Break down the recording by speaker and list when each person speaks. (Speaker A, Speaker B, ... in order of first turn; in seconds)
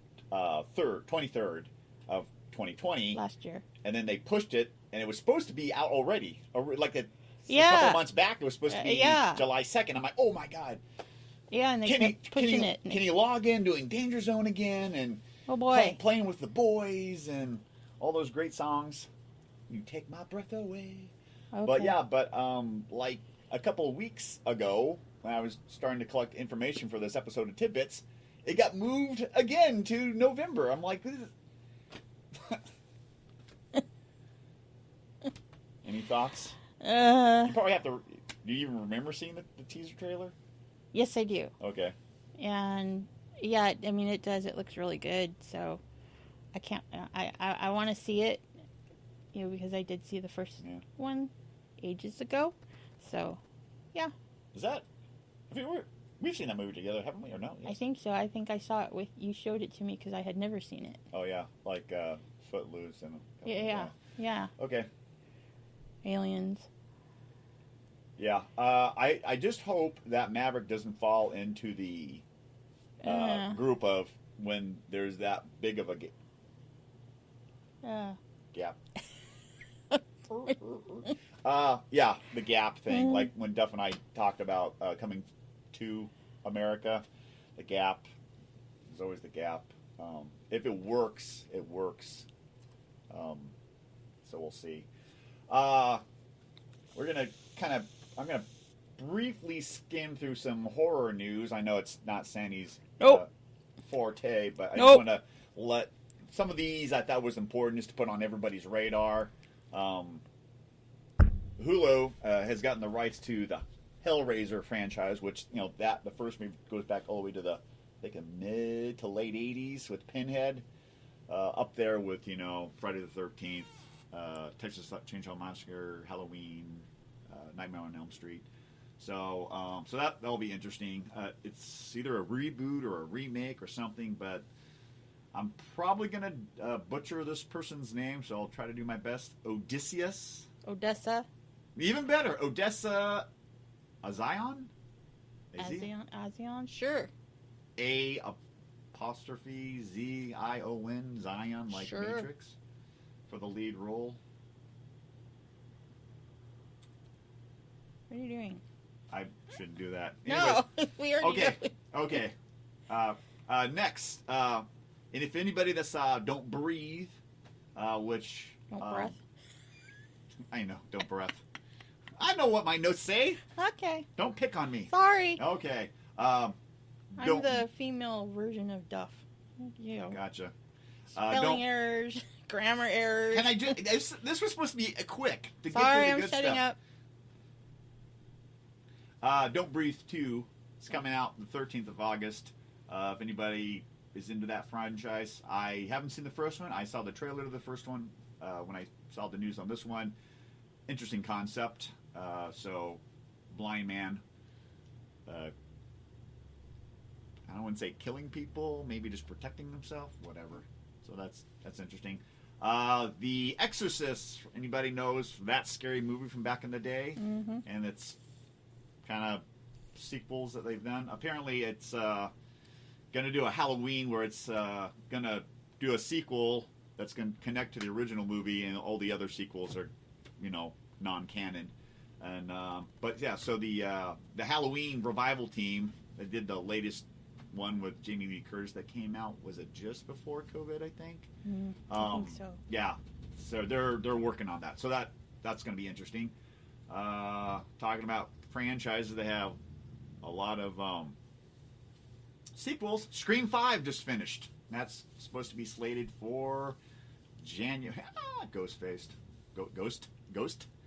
Speaker A: 0.3-3.2, 3.8-10.8, 11.8-19.1, 19.7-21.1, 21.6-31.3, 32.3-32.6, 35.8-36.6, 37.4-40.3, 41.6-41.9, 54.5-54.9, 55.5-57.8, 61.1-64.0, 64.6-64.9, 68.2-72.2, 73.0-76.1, 80.5-87.0, 87.6-88.0, 88.9-92.3, 93.1-93.5, 94.2-94.9, 95.5-96.0, 96.9-98.4, 99.0-103.3, 103.8-110.2, 111.6-120.6, 121.3-128.4, 129.0-134.5, 135.3-140.5, 141.8-143.3, 144.0-144.7, 145.5-145.9, 147.8-148.4, 148.9-152.6, 153.3-154.2, 159.1-160.6, 161.2-162.3, 162.9-167.2, 167.7-169.2, 170.5-171.4, 172.2-173.4, 174.2-176.6, 177.1-177.6, 180.1-180.5, 181.1-181.6, 183.3-186.6, 189.2-200.1, 200.9-204.2, 205.3-205.5, 207.5-218.2, 219.0-219.4, 219.9-222.3, 223.1-241.3, 241.9-246.3, 246.9-249.6, 250.2-251.2, 252.5-256.8, 257.4-260.7
Speaker B: 3.1-3.6, 7.5-8.0, 8.7-9.4, 11.5-13.0, 15.5-16.0, 21.5-21.9, 36.8-37.5, 40.9-41.5, 42.4-45.8, 46.5-48.4, 49.3-53.4, 57.6-61.0, 63.4-64.5, 66.0-66.7, 73.0-73.6, 77.8-78.2, 79.9-81.1, 82.9-83.3, 104.7-105.0, 140.6-141.3, 145.6-147.1, 151.7-152.3, 158.1-158.6, 160.3-161.7, 168.7-169.2, 173.5-174.1, 174.9-175.4, 177.2-180.2, 181.2-183.8, 185.7-186.8, 217.2-217.6, 241.4-242.6